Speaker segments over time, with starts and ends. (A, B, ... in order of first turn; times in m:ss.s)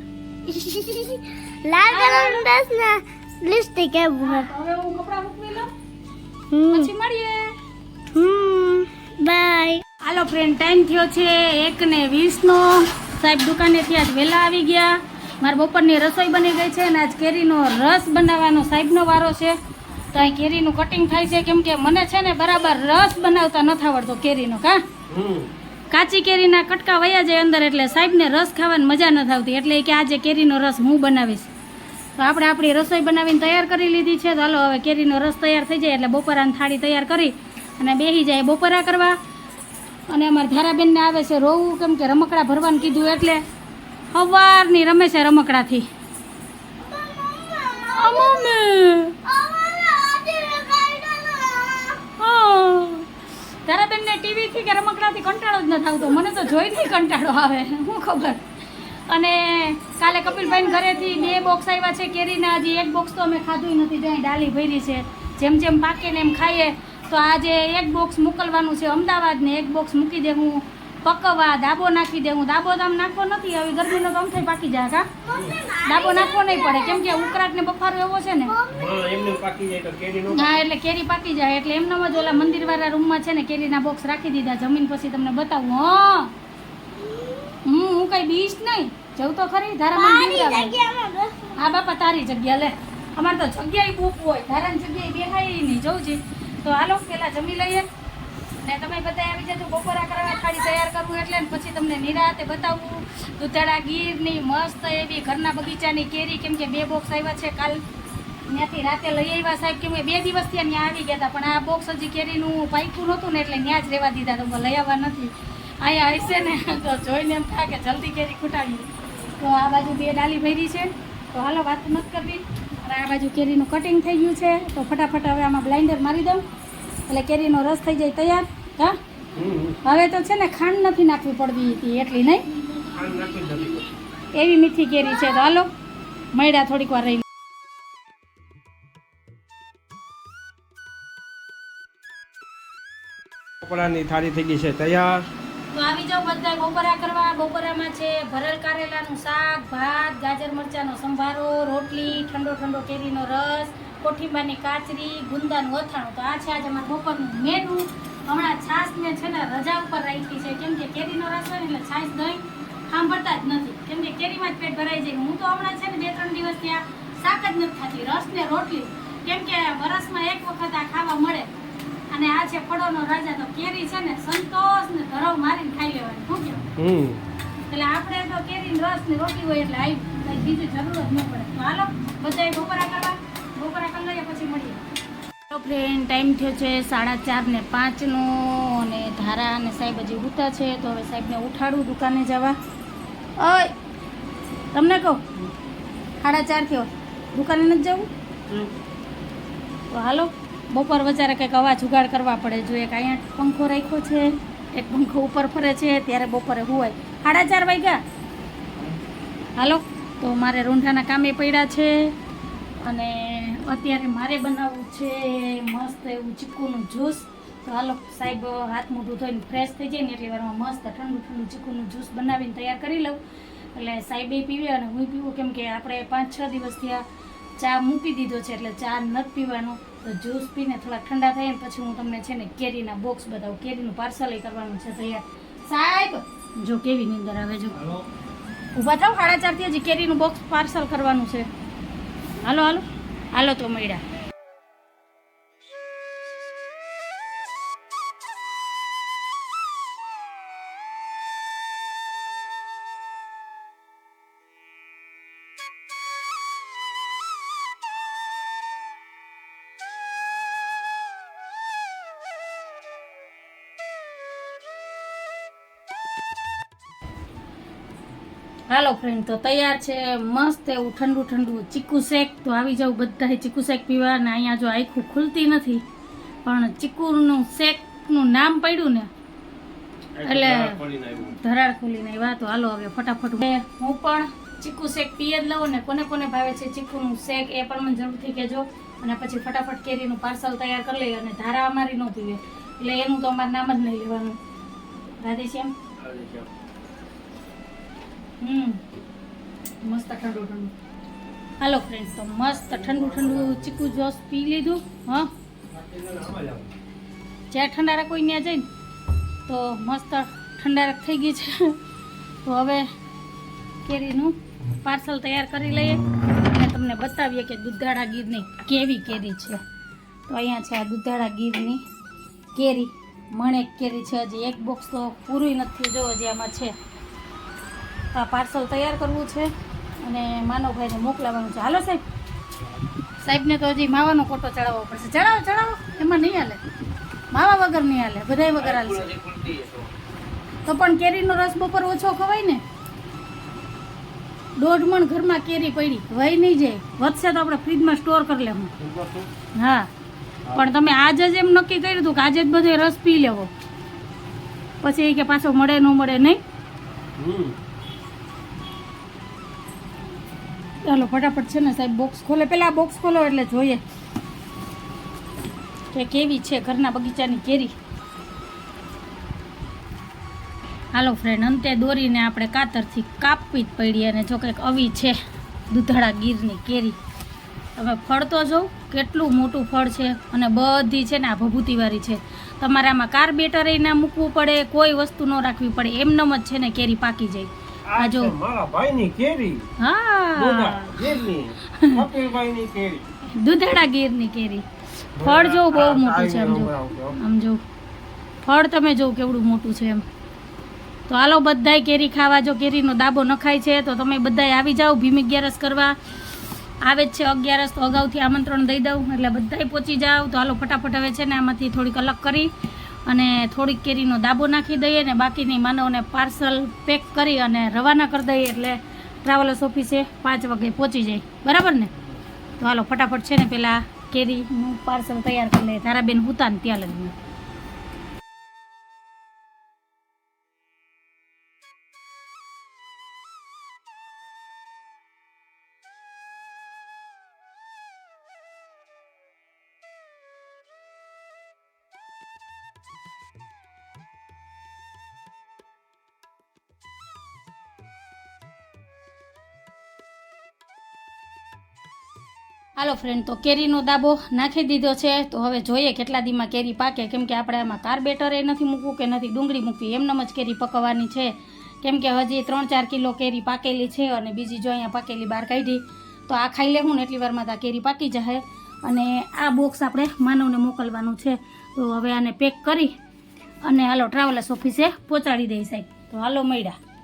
0:00.5-0:04.5 A
0:01.9-0:02.5 B
0:04.2-0:05.7 B
0:06.5-0:06.9 A
0:06.7-0:07.5 B
0:08.1-0:09.8 A
0:10.0-0:19.6 B
0:20.1-0:24.8 B
0:25.1-0:25.5 C
0:25.9-0:31.5 B
0:32.2-0:39.2 B
0:40.1-0:43.4 B
0:44.1-0:45.9 B
0:46.8-0:48.6 A
0:47.9-0:49.2 B
0:49.2-0:52.0 A
0:52.2-0:53.1 B
0:53.7-0:58.4 B
0:59.1-1:15.1 B
1:00.1-1:01.5 A
1:15.2-1:15.6 C
1:15.2-1:17.4 A
1:15.8-1:18.6 B
1:18.5-1:19.3 A
1:18.7-1:20.6 C
1:20.3-1:26.3 B
1:27.0-1:27.5 A
1:27.6-1:30.8 B
1:30.0-1:31.4 A
1:31.6-1:37.9 B
1:38.6-1:47.8 B
1:48.5-1:58.9 B
1:59.4-2:06.4 B
2:07.1-2:09.0 B
2:09.4-2:09.8 C
2:09.8-2:12.5 B
2:12.9-2:13.9 C
2:14.3-2:15.7 B
2:16.3-2:17.2 B
2:23.6-2:25.2 C
2:25.7-2:51.5 B
2:52.1-2:56.6 B
2:56.8-2:57.2 C
2:57.7-3:04.8 B
3:05.5-3:12.6 B
3:13.4-3:13.7 B
3:14.7-3:15.2 B
3:16.2-3:18.1 B
3:19.9-3:28.0 B
3:29.6-3:32.2 B
3:32.8-3:43.2 B
3:43.8-3:47.0 B
3:47.6-3:57.8 B
3:57.7-3:58.1 C
3:58.8-4:01.5 B
4:02.4-4:04.0 B
4:28.7-4:35.8 B
4:36.4-4:39.1 B
4:40.2-4:41.4 C
4:40.3-4:40.8 B
4:41.3-4:54.4 B
4:55.2-4:55.7 B
4:56.0-4:56.5 C
4:58.4-4:58.8 B
4:59.8-5:00.7 B
5:01.6-5:05.3 B
5:02.5-5:04.0 C
5:05.7-5:06.7 C
5:07.5-5:08.7 B
5:09.5-5:11.8 B
5:12.4-5:12.9 B
5:13.8-5:19.6 B
5:20.3-5:21.8 B
5:22.5-5:26.8 B
5:28.1-5:32.0 B
5:33.2-5:36.6 B
5:37.3-5:39.1 B
5:38.6-5:39.9 C
5:40.6-5:42.6 B
5:44.6-5:48.7 B
5:48.8-5:49.3 C
5:49.6-5:49.9 B
5:50.5-5:50.8 C
5:50.5-5:53.5 B
5:54.8-5:56.4 B
5:57.2-5:57.6 C
6:00.8-6:03.8 B
6:05.9-6:07.8 B
6:11.0-6:15.2 B
6:15.7-6:17.0 B
6:17.8-6:28.4 B
6:27.9-6:29.7 C
6:29.8-6:31.0 B
6:30.4-6:33.0 C
6:31.8-6:32.0 B
6:33.4-6:34.6 B
6:35.2-6:37.2 C
6:35.2-6:37.6 B
6:38.4-6:40.0 B
6:41.1-6:46.0 B
6:46.8-6:52.5 B
6:53.1-7:01.9 B
7:02.6-7:07.1 B
7:32.8-7:53.0 B
7:53.6-7:56.8 B